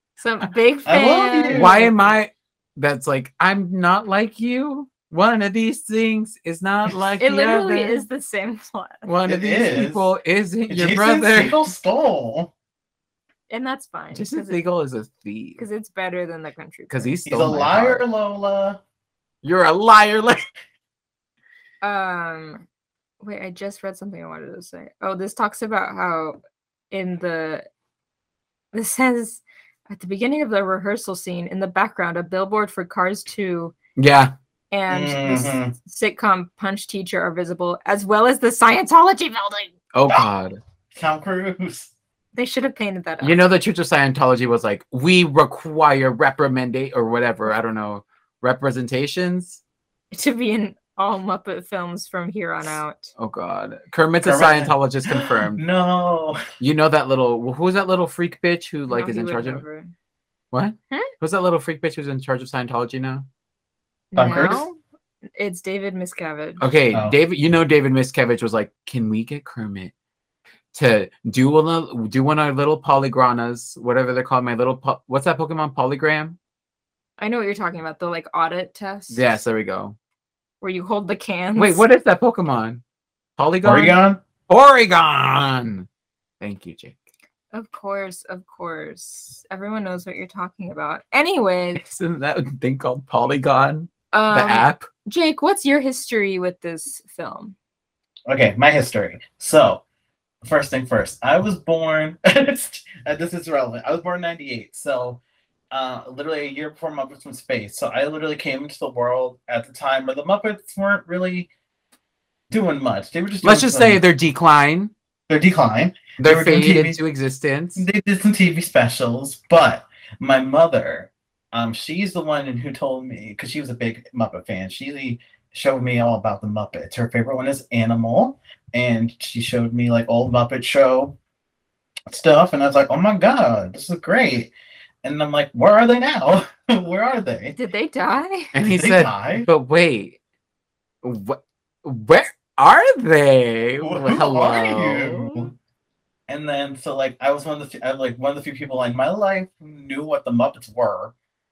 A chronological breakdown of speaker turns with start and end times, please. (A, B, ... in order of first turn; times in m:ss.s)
0:00.2-0:01.9 A
0:00.9-0:01.9 B
0:01.5-0:08.1 C
0:07.2-0:09.1 A
0:09.0-0:11.7 C
0:09.3-0:10.1 B
0:10.7-0:12.5 B
0:13.5-0:14.6 A
0:14.1-0:15.6 C
0:15.6-0:17.2 A
0:16.9-0:18.0 C
0:17.3-0:18.8 B
0:19.4-0:20.4 C
0:21.8-0:22.6 A
0:23.2-0:26.4 A
0:26.9-0:27.7 A
0:28.7-0:33.8 A
0:34.0-0:34.3 C
0:34.7-0:39.7 A
0:34.9-0:35.7 B
0:39.9-0:40.6 C
0:40.9-0:41.9 B
0:42.4-0:43.4 A
0:43.2-0:49.6 C
0:50.1-0:53.1 A
0:53.2-0:55.6 C
0:54.2-0:56.4 B
0:56.6-0:59.6 C
0:58.9-0:59.9 A
1:00.5-1:03.3 C
1:04.1-1:04.8 A
1:04.2-1:04.7 B
1:05.4-1:06.6 A
1:06.6-1:09.9 C
1:10.7-1:16.4 C
1:17.2-1:19.2 A
1:19.1-1:20.0 C
1:20.6-1:21.8 A
1:21.6-1:22.8 C
1:23.4-1:25.9 C
1:23.6-1:24.2 B
1:26.4-1:27.0 C
1:27.5-1:31.8 A
1:31.8-1:34.9 C
1:34.1-1:37.6 A
1:38.3-1:39.8 B
1:40.4-1:51.5 B
1:52.5-1:54.0 B
1:53.4-1:54.9 C
1:55.3-1:57.0 B
1:56.2-1:57.9 C
1:57.8-2:11.2 B
2:12.1-2:14.5 B
2:15.0-2:17.6 B
2:17.6-2:18.5 A
2:18.5-2:20.2 C
2:18.6-2:19.5 B
2:21.0-2:25.5 C
2:23.8-2:25.5 B
2:26.3-2:31.1 B